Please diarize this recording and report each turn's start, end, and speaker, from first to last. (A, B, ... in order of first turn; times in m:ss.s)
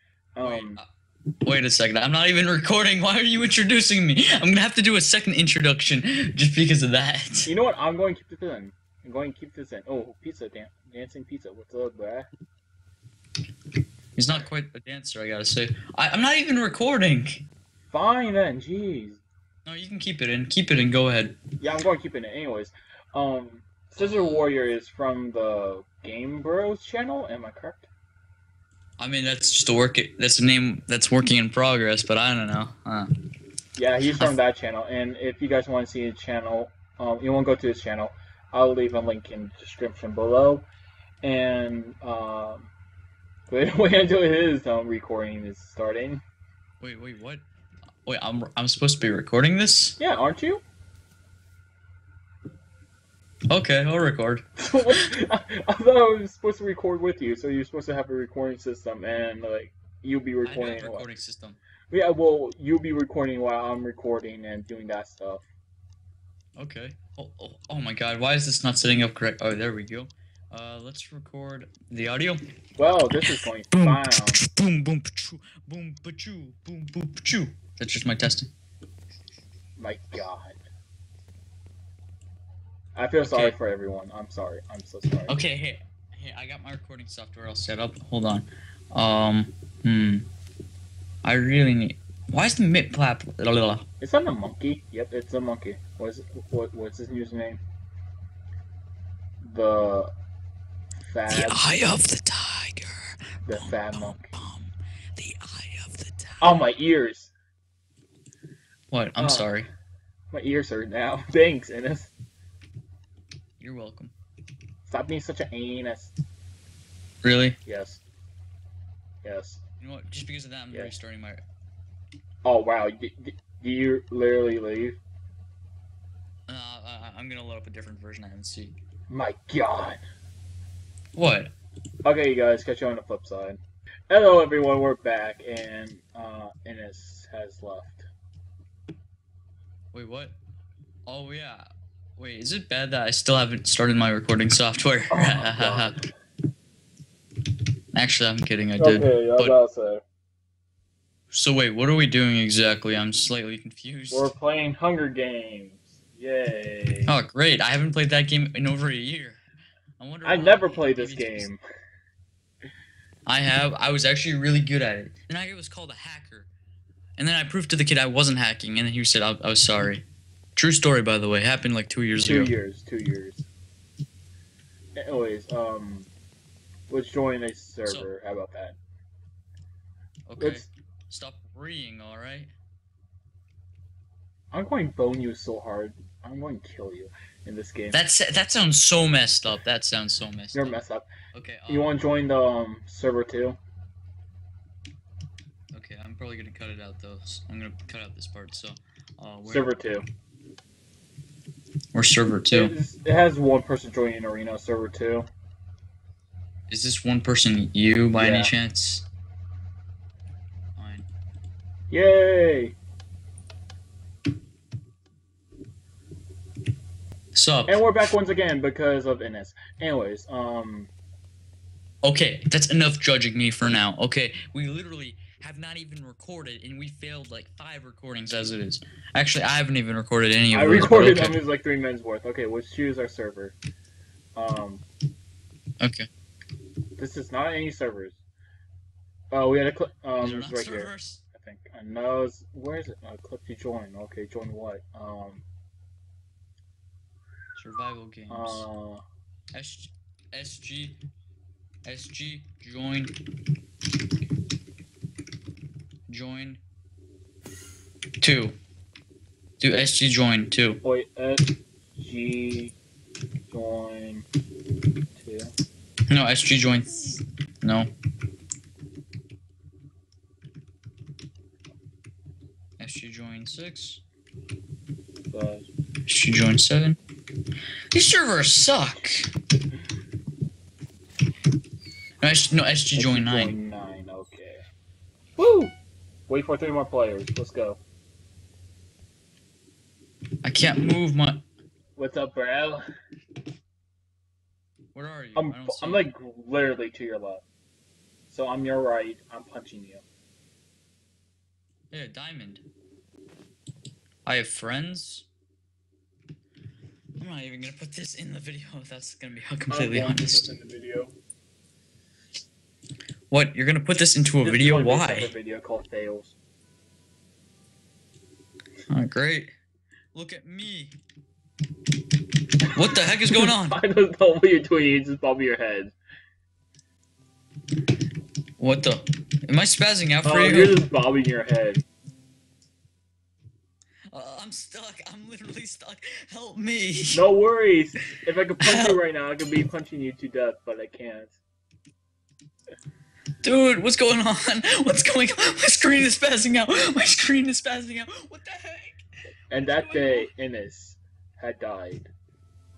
0:00.4-0:00.8 A
0:00.4-0:00.8 B
0:01.4-0:07.5 B
0:07.5-0:12.3 A
0:14.2-0:17.4 B
0:17.9-0:19.2 A
0:19.7-0:21.4 B
0:21.6-0:27.9 A
0:24.0-0:24.5 B
0:29.0-0:33.1 B
0:33.8-0:40.7 A
0:34.0-0:34.4 B
0:41.2-0:42.7 A
0:43.5-0:46.2 A
0:46.8-0:47.4 B
0:48.1-0:50.0 B
0:50.0-0:50.6 A
0:53.5-0:54.9 B
0:54.6-1:01.1 A
1:00.4-1:01.6 B
1:01.9-1:05.4 A
1:06.6-1:12.4 B
1:12.8-1:14.4 A
1:13.3-1:18.5 B
1:19.8-1:20.6 A
1:23.0-1:25.4 A
1:23.3-1:23.6 B
1:25.3-1:30.3 B
1:31.2-1:33.9 B
1:34.0-1:37.6 A
1:39.4-1:40.1 A
1:41.0-1:41.7 A
1:41.3-1:46.6 B
1:43.5-1:44.3 A
1:46.4-1:47.3 A
1:48.9-1:49.7 B
1:49.2-1:49.6 A
1:50.3-1:52.1 A
1:53.6-1:54.1 B
1:54.9-1:56.1 A
1:57.2-1:57.6 B
1:57.7-1:58.0 A
1:59.2-1:59.6 A
1:59.8-2:01.4 B
2:02.4-2:05.0 A
2:06.5-2:08.8 B
2:09.1-2:10.0 A
2:11.2-2:11.5 B
2:12.0-2:18.1 A
2:19.9-2:20.4 B
2:21.1-2:21.7 B
2:22.2-2:26.0 B
2:25.1-2:26.0 A
2:27.9-2:29.6 B
2:28.8-2:30.0 A
2:31.3-2:34.3 B
2:34.1-2:37.1 A
2:37.1-2:39.4 B
2:40.0-2:41.5 B
2:40.2-2:41.6 A
2:43.3-2:46.5 B
2:47.2-2:50.0 B
2:50.6-2:52.5 B
2:52.2-2:53.5 A
2:55.0-2:56.1 A
2:56.9-2:58.8 A
3:00.3-3:02.5 B
3:00.4-3:00.7 A
3:04.5-3:08.0 A
3:07.9-3:10.8 B
3:10.5-3:11.1 A
3:11.3-3:11.9 B
3:11.7-3:13.6 A
3:15.7-3:19.7 B
3:19.5-3:20.1 A
3:21.9-3:22.7 B
3:22.5-3:25.3 A
3:26.7-3:29.1 B
3:28.1-3:28.5 A
3:30.8-3:31.1 B
3:31.9-3:32.8 A
3:37.3-3:37.8 B
3:37.7-3:40.9 A
3:42.0-3:51.4 B
3:50.5-3:53.6 A
3:54.4-3:54.8 A
3:55.8-3:56.1 B
3:57.0-3:58.2 A
3:59.3-4:05.4 A
4:00.2-4:01.2 B
4:07.6-4:08.7 B
4:08.3-4:09.0 A
4:09.5-4:11.0 B
4:11.8-4:13.1 B
4:16.1-4:16.6 B
4:18.2-4:18.6 B
4:19.6-4:20.8 B
4:20.8-4:22.8 A
4:23.5-4:24.3 A
4:25.2-4:25.5 A
4:26.1-4:27.9 B
4:32.8-4:34.0 B
4:35.3-4:35.6 A
4:36.1-4:37.0 B
4:37.9-4:39.3 B
4:42.2-4:43.5 B
4:43.0-4:44.6 A
4:45.4-4:45.7 A
4:46.3-4:47.8 A
4:50.4-4:51.4 B
4:52.0-4:52.8 A
4:54.9-4:56.1 B
4:55.4-4:57.4 A
4:58.3-5:00.0 A
5:01.9-5:02.6 B
5:04.3-5:05.3 B
5:07.2-5:10.5 B
5:09.7-5:11.2 A
5:13.3-5:15.3 B
5:14.4-5:16.4 A
5:18.9-5:19.5 B
5:20.1-5:21.0 B
5:22.7-5:23.8 B
5:22.8-5:25.9 A
5:28.6-5:30.8 B
5:30.2-5:31.8 A
5:34.1-5:37.3 B
5:37.1-5:41.4 A
5:38.6-5:39.0 B
5:43.4-5:50.3 B
5:49.5-5:52.1 A